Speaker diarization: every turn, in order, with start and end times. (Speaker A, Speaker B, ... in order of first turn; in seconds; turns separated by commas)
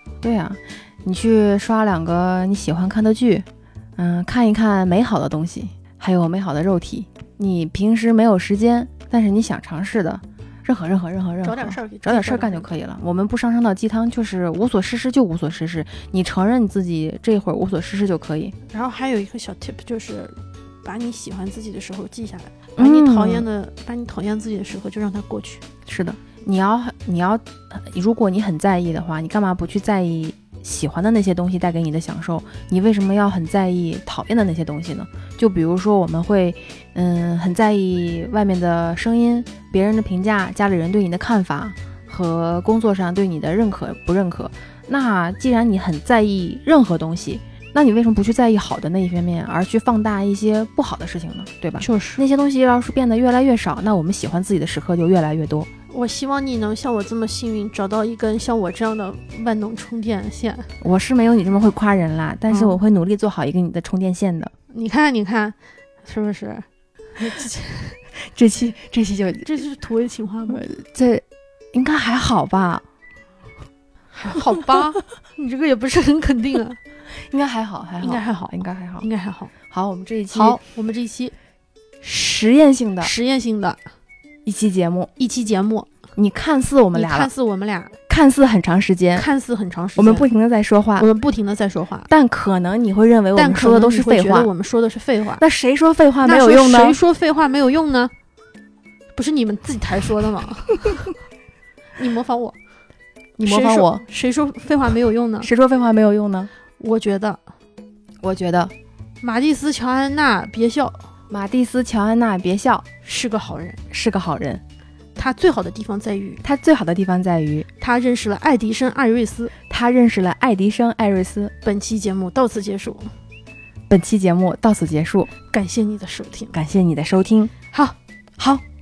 Speaker A: 0.2-18.6, Speaker B: 11.4-12.7, Speaker B: 18.7-25.6, Speaker A: 22.8-23.4, Speaker A: 25.9-55.7, Speaker B: 51.8-52.2, Speaker B: 55.9-60.7, Speaker A: 60.8-64.5, Speaker B: 62.5-62.8, Speaker B: 64.7-68.0, Speaker A: 68.2-69.5, Speaker B: 69.4-70.6, Speaker A: 70.5-72.8, Speaker B: 74.1-76.8, Speaker A: 77.1-79.1, Speaker B: 78.0-79.5, Speaker A: 79.7-80.6, Speaker B: 80.3-81.3, Speaker A: 82.0-83.1, Speaker B: 83.0-83.8, Speaker A: 84.4-85.1, Speaker B: 85.2-85.9, Speaker A: 86.2-87.3, Speaker B: 86.9-88.0, Speaker A: 88.1-89.2, Speaker B: 89.2-90.3, Speaker A: 90.0-91.0, Speaker B: 91.0-92.1, Speaker A: 92.1-94.5, Speaker B: 93.3-95.4, Speaker A: 95.4-97.0, Speaker B: 96.2-98.1, Speaker B: 99.1-101.1, Speaker B: 102.0-102.6, Speaker A: 103.4-104.0, Speaker B: 103.4-105.5, Speaker A: 105.4-106.5, Speaker B: 106.8-107.4, Speaker A: 108.2-108.7, Speaker B: 109.2-111.1, Speaker A: 111.3-112.8, Speaker B: 113.0-113.8, Speaker A: 113.9-114.6, Speaker B: 115.2-116.4, Speaker A: 116.4-117.7, Speaker B: 117.8-119.5, Speaker A: 119.7-121.5, Speaker B: 121.6-123.1, Speaker A: 123.9-125.3, Speaker B: 125.5-126.5, Speaker A: 126.5-127.5, Speaker A: 128.4-128.6